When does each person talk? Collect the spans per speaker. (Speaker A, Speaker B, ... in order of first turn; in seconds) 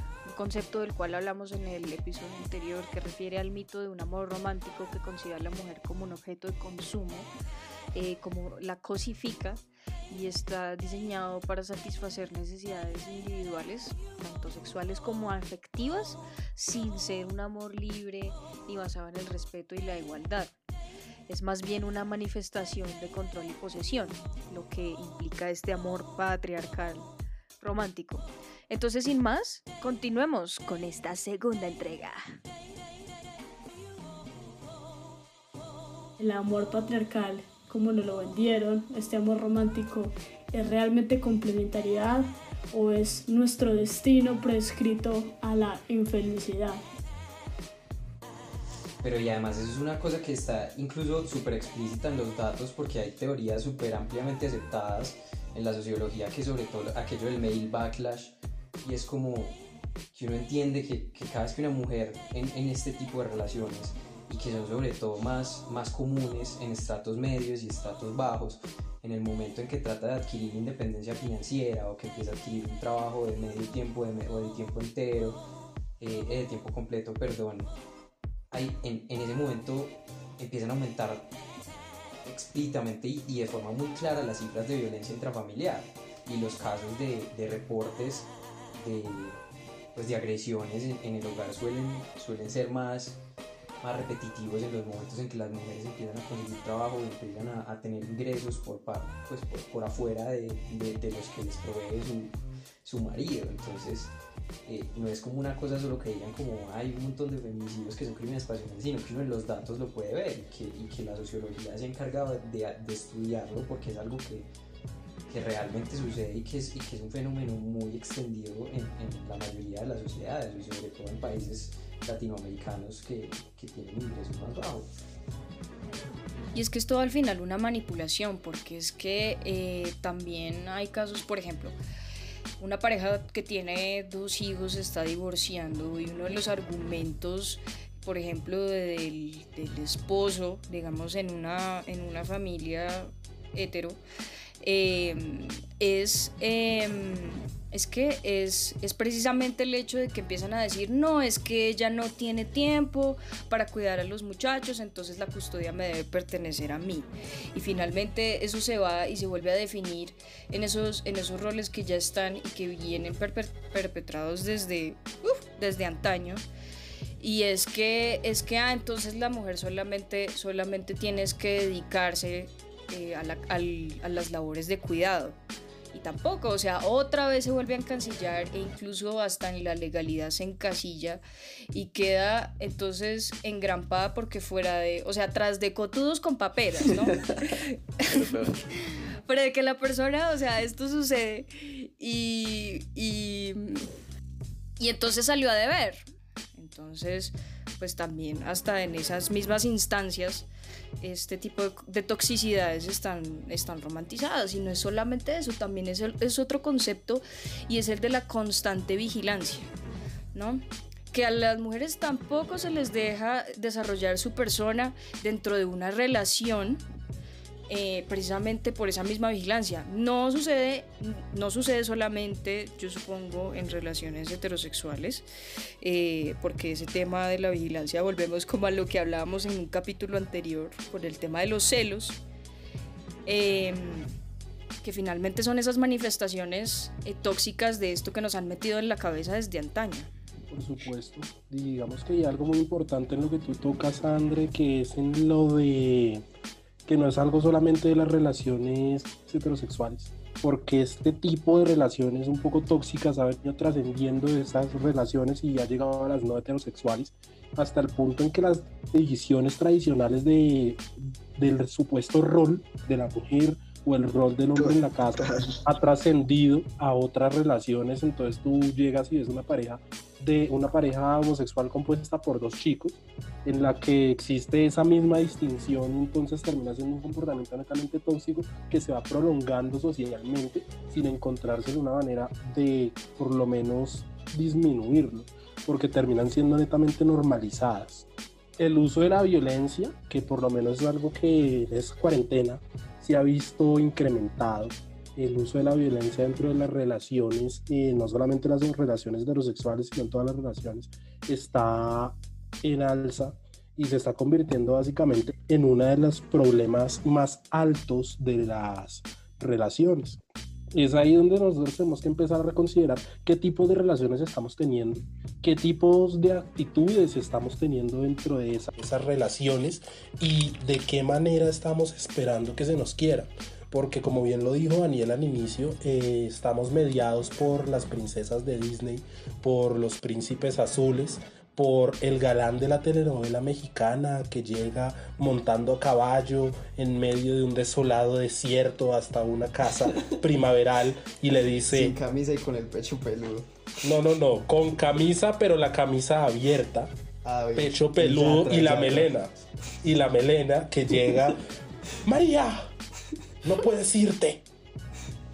Speaker A: 0.2-7.3, 7.9-20.5, 21.3-27.1, 27.6-32.2, 126.5-131.8, 132.6-144.0, 144.6-166.4, 167.2-175.4, 175.9-181.2, 181.7-188.2, 189.3-193.9, 194.8-200.5, 201.0-209.7, 210.3-216.8, 217.7-225.2, 225.8-232.2, 233.2-234.1, 234.8-240.1
Speaker B: 36.2-46.8
Speaker C: 49.0-59.6, 60.1-75.4, 76.0-77.7, 78.5-81.3, 82.2-89.4, 89.9-93.2, 93.8-104.1, 104.7-114.5, 115.3-124.9, 187.1-187.4, 188.1-188.6, 264.6-265.5, 341.6-343.5, 347.2-349.3
Speaker D: 240.5-246.2, 246.8-288.1, 288.6-310.2, 310.7-342.0, 343.8-346.9, 347.6-349.3, 349.8-351.4, 352.0-352.7, 353.4-354.4